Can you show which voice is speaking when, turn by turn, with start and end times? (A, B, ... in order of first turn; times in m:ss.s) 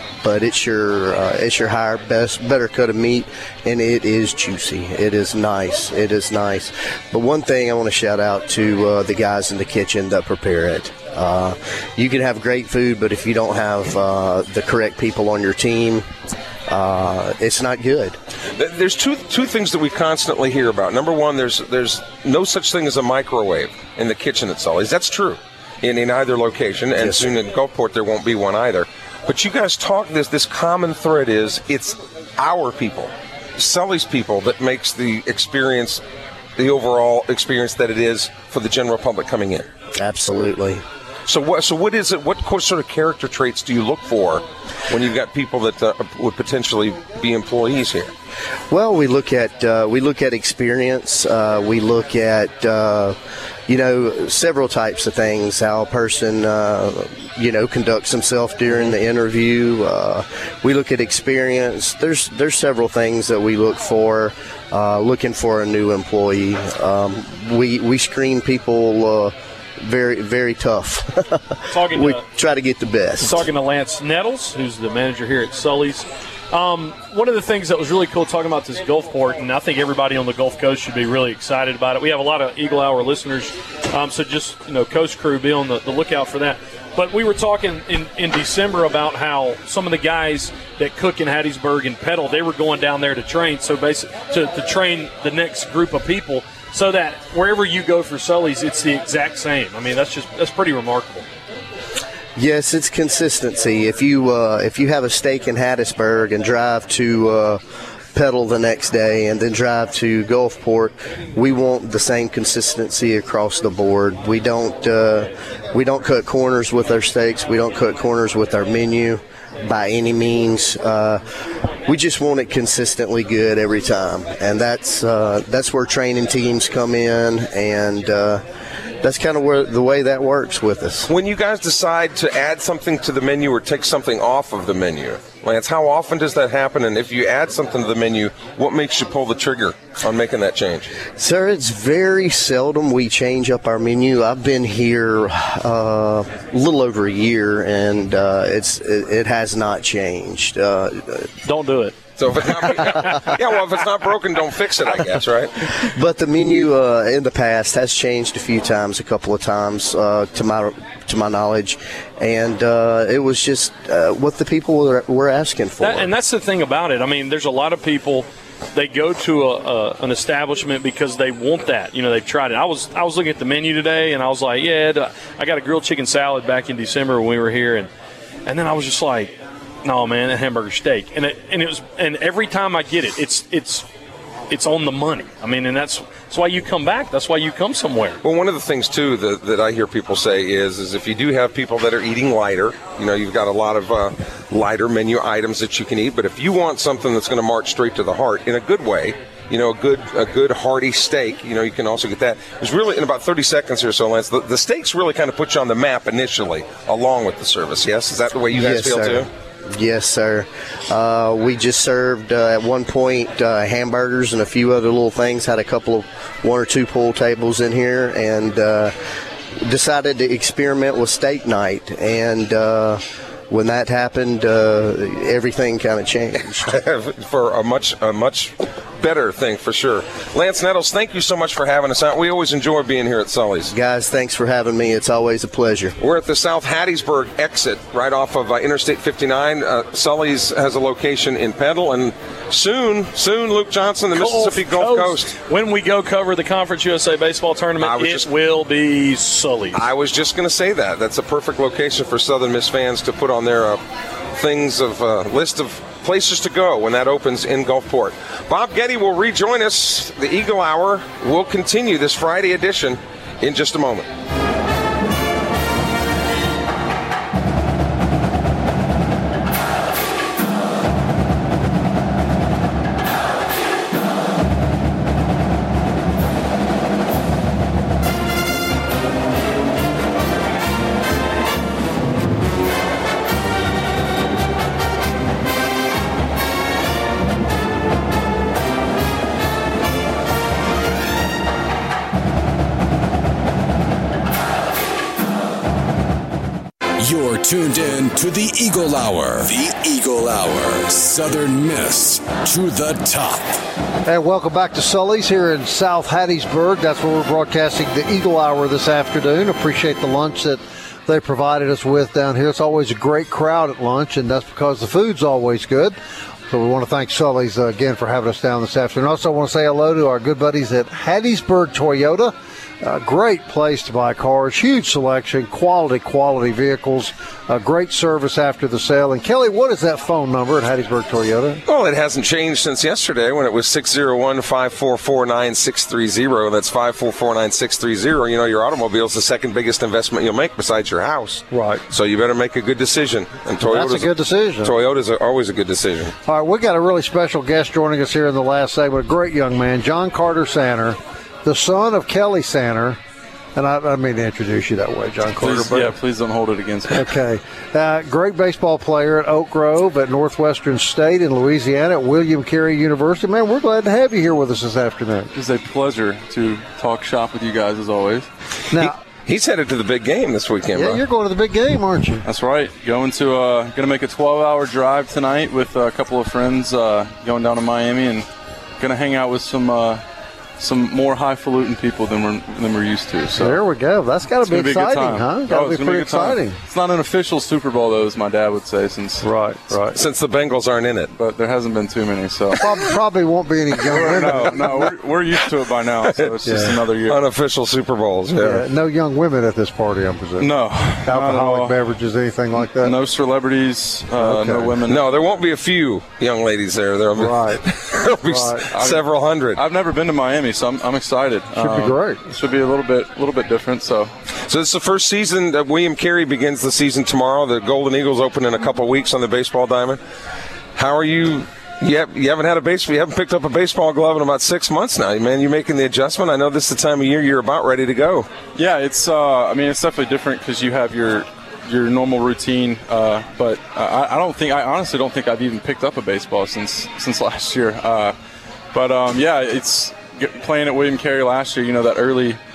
0:00.2-0:16.1 A
0:16.7-0:18.2 A
0:18.6-0:36.0 B
0:27.0-0:27.4 A
0:36.6-0:39.7 B
0:40.0-0:40.8 A
0:41.2-0:48.1 B
0:48.7-1:13.4 A
1:11.7-1:12.2 C
1:13.2-1:41.2 C
1:42.4-1:47.6 A
1:48.1-2:01.2 A
2:01.8-2:08.4 A
2:09.0-2:11.1 A
2:11.1-2:20.9 B
2:21.1-2:31.3 A
2:31.4-2:32.0 C
2:32.2-2:35.7 B
2:33.0-2:33.3 A
2:35.7-2:46.1 A
2:45.8-2:57.9 C
2:58.4-3:03.8 C
3:04.5-3:08.2 C
3:08.2-3:29.3 B
3:28.5-3:38.9 A
3:39.6-3:46.7 A
3:46.6-3:53.7 B
3:53.7-3:55.9 A
3:56.0-4:05.3 B
4:04.1-4:09.8 C
4:07.8-4:08.3 B
4:09.7-4:13.8 B
4:14.4-4:24.1 B
4:57.0-5:03.6 D
5:04.0-5:16.0 E
5:16.5-5:31.6 E
5:31.7-5:46.1 B
5:41.5-5:41.8 E
5:43.6-5:44.7 E
5:46.2-5:53.0 E
5:53.5-5:56.0 E
5:55.4-5:57.1 F
5:56.9-6:05.3 E
6:05.3-6:08.3 F
6:08.7-6:11.0 B
6:10.7-6:12.2 E
6:12.2-6:18.2 F
6:18.8-6:20.0 F
6:20.6-6:23.6 F
6:23.4-6:26.6 E
6:24.4-6:29.3 F
6:29.2-6:30.0 E
6:29.9-6:31.1 B
6:31.2-6:32.6 F
6:32.6-6:34.9 E
6:33.8-6:37.2 F
6:34.0-6:34.4 B
6:36.0-6:36.4 B
6:36.4-6:36.8 E
6:37.0-6:38.6 B
6:38.4-6:43.0 E
6:40.4-6:41.8 F
6:42.8-6:45.0 F
6:44.2-6:44.8 E
6:44.8-6:49.6 B
6:47.2-6:47.6 E
6:48.2-6:48.6 E
6:48.7-6:54.1 F
6:51.6-6:52.2 E
6:54.5-7:00.0 B
7:00.8-7:08.3 B
7:08.5-7:18.1 F
7:18.7-7:22.4 F